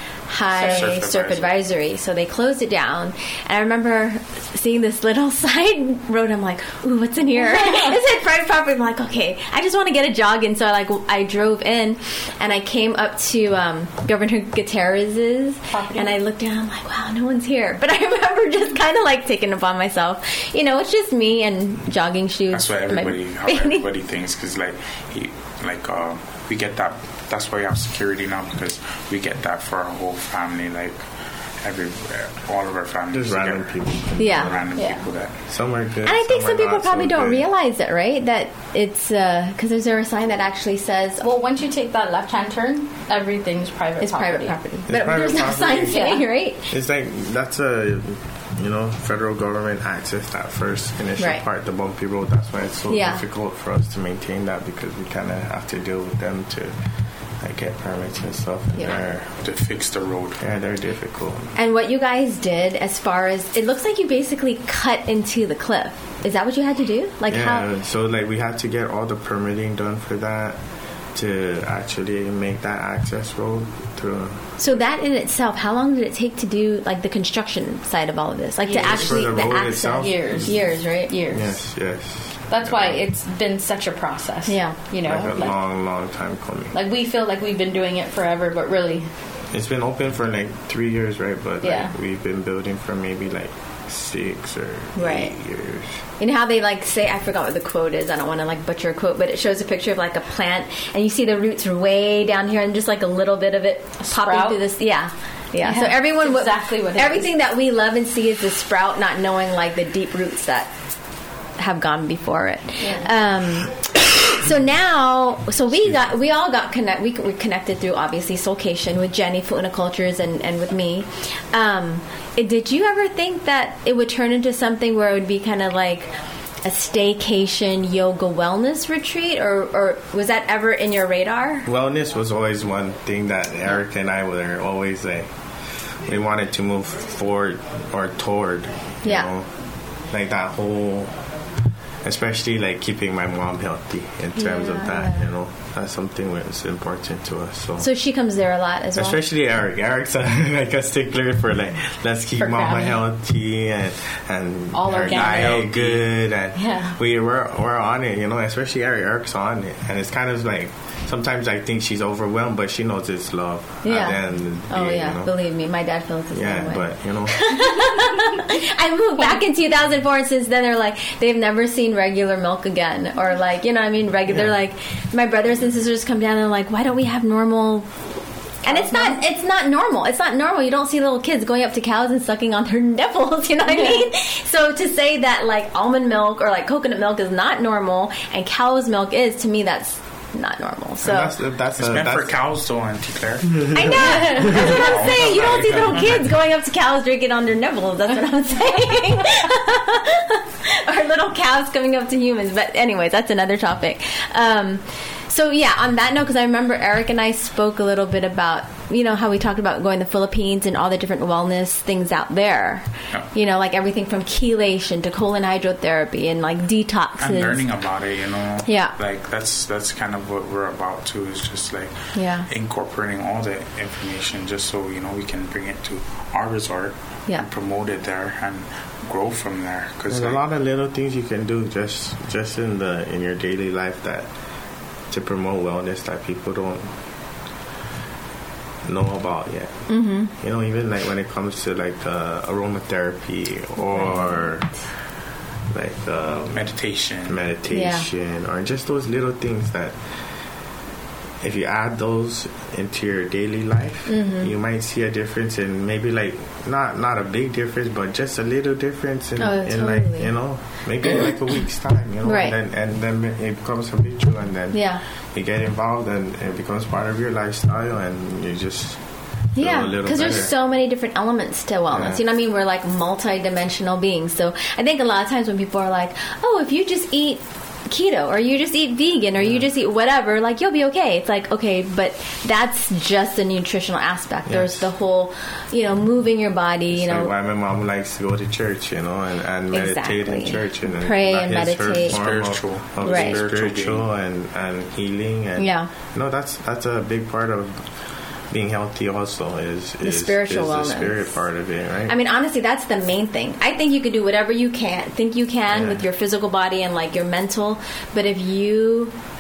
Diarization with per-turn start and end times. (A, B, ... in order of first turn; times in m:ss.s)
0:00.3-0:23.8 A
0:00.5-0:01.5 B
0:00.6-0:00.9 C
0:15.7-0:16.2 C
0:22.5-0:31.0 B
0:31.6-0:35.3 B
0:33.1-0:34.8 D
0:34.2-0:34.5 A
0:34.8-0:35.0 C
0:35.5-0:37.4 D
0:36.0-0:41.3 A
0:41.2-0:44.6 C
0:44.0-0:46.7 A
0:44.9-0:46.0 D
0:45.9-0:46.2 C
0:46.7-0:56.8 D
0:52.9-0:53.2 A
0:57.4-0:59.3 D
0:59.4-1:00.4 B
1:00.4-1:01.5 D
1:01.6-1:07.7 A
1:07.3-1:10.6 D
1:11.1-1:14.8 D
1:14.6-1:21.1 A
1:18.6-1:21.5 C
1:18.8-1:20.7 D
1:21.3-1:23.0 D
1:22.5-1:25.6 C
1:24.5-1:24.8 A
1:25.0-1:26.7 D
1:26.7-1:29.1 C
1:29.5-1:36.0 D
1:31.6-1:31.9 C
1:35.0-1:35.3 A
1:36.2-1:50.7 A
1:44.0-1:44.6 C
1:45.6-1:47.3 C
1:51.6-2:06.1 A
2:06.6-2:11.7 A
2:11.7-2:15.3 D
2:15.9-2:19.5 D
2:19.0-2:19.3 A
2:20.1-2:21.2 D
2:22.0-2:27.9 D
2:24.4-2:25.3 A
2:27.8-2:29.2 A
2:29.0-2:45.3 D
2:32.4-2:33.0 C
2:34.7-2:35.7 C
2:35.0-2:36.1 B
2:36.6-2:37.0 C
2:43.8-2:57.9 A
2:46.3-2:47.5 D
2:58.6-3:11.3 A
2:58.7-2:59.2 C
3:11.0-3:12.4 D
3:11.8-3:16.2 B
3:13.6-3:15.6 D
3:13.7-3:37.6 A
3:37.2-3:42.0 B
3:38.6-3:38.9 A
3:42.1-3:42.5 A
3:42.5-3:50.4 B
3:50.1-3:54.3 D
3:55.1-3:56.9 D
3:58.8-4:04.7 D
3:59.9-4:00.3 A
4:05.7-4:06.7 D
4:06.5-4:07.4 B
4:07.3-4:10.0 D
4:07.7-4:08.1 A
4:11.4-4:29.0 D
4:14.1-4:14.5 A
4:19.4-4:20.3 A
4:22.2-4:22.6 A
4:24.7-4:25.0 A
4:29.6-4:47.3 A
4:29.6-4:30.5 D
4:31.9-4:32.2 D
4:44.5-4:44.9 D
4:46.9-4:57.9 D
4:49.7-4:52.2 A
4:51.9-4:54.1 B
4:53.0-4:53.4 A
4:55.6-4:55.9 A
4:58.5-5:02.2 D
5:00.0-5:01.4 A
5:02.1-5:09.1 A
5:05.7-5:06.0 D